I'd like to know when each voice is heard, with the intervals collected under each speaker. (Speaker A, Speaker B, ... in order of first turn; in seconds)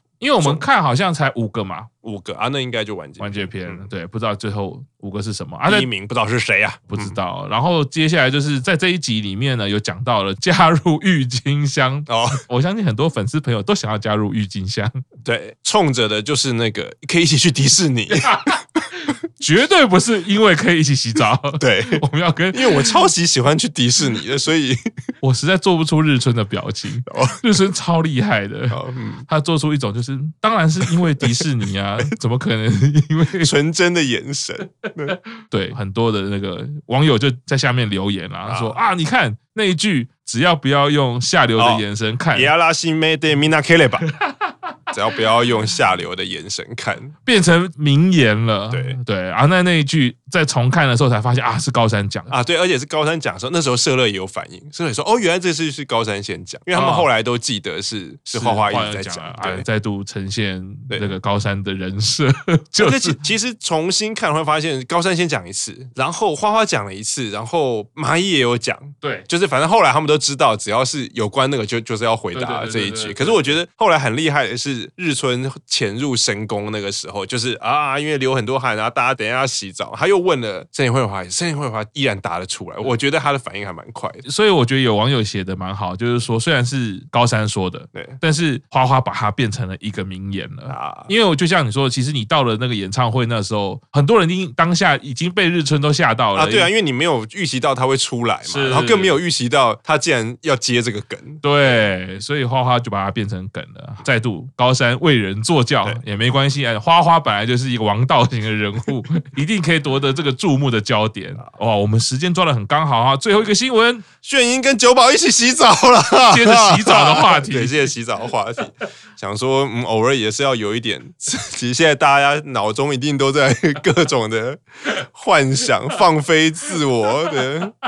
Speaker A: 0.2-1.9, 3.2-5.9, 6.9-15.0, 18.2-23.0, 25.2-28.8, 29.3-33.5, 35.0-42.5, 44.2-44.5, 47.2-52.3, 56.7-57.1, 58.3-63.2, 69.0-69.3, 72.3-73.6, 84.2-96.7, 98.5-99.2, 101.4-114.0, 116.3-117.9
Speaker B: 2.0-3.9, 5.7-7.2, 12.1-12.4, 15.2-18.4, 21.6-24.8, 27.1-27.4, 28.7-29.3, 30.9-31.4, 33.4-35.1, 38.5-38.8, 41.6-44.1, 44.9-47.2, 48.7-49.0, 52.3-59.6, 62.8-84.2, 90.7-91.1, 96.3-101.4, 114.2-127.7